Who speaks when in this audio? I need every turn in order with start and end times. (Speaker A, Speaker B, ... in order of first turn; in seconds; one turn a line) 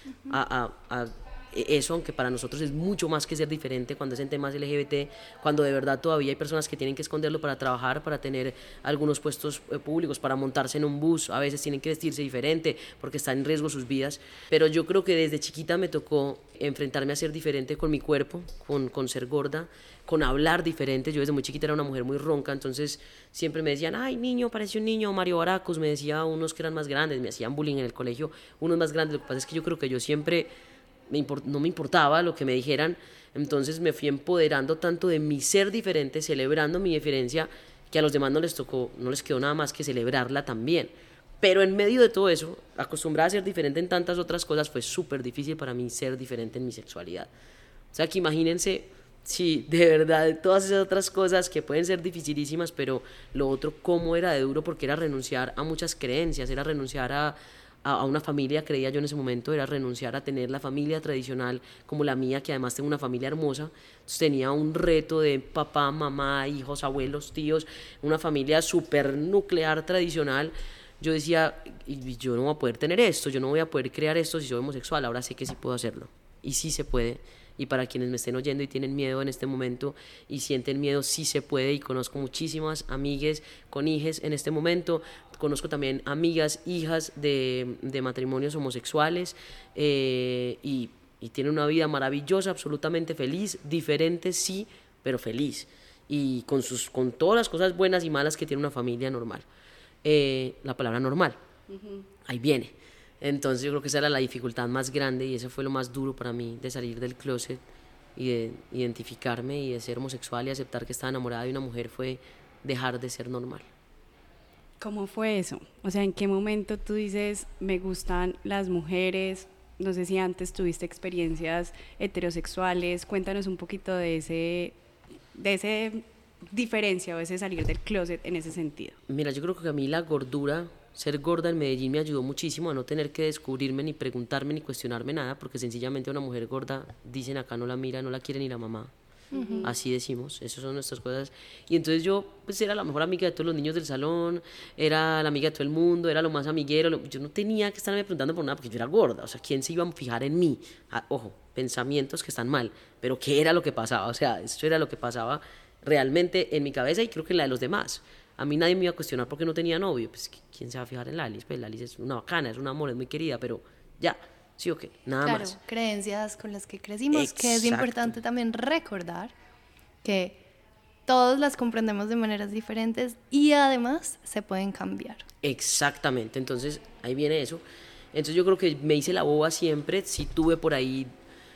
Speaker A: 0.3-30.5
Speaker A: 31.1-47.3
Speaker A: 47.9-99.5
Speaker A: 100.0-101.4
Speaker B: 101.7-102.1
Speaker A: 102.2-107.6
Speaker A: 108.2-113.7
Speaker B: 114.8-124.8
Speaker B: 125.3-129.0
Speaker A: 129.1-138.9
Speaker C: 139.3-139.7
Speaker A: 139.6-165.6
Speaker C: 165.2-169.3
Speaker A: 167.1-168.1
Speaker C: 170.0-170.4
Speaker C: 171.1-175.3
Speaker A: 175.4-181.1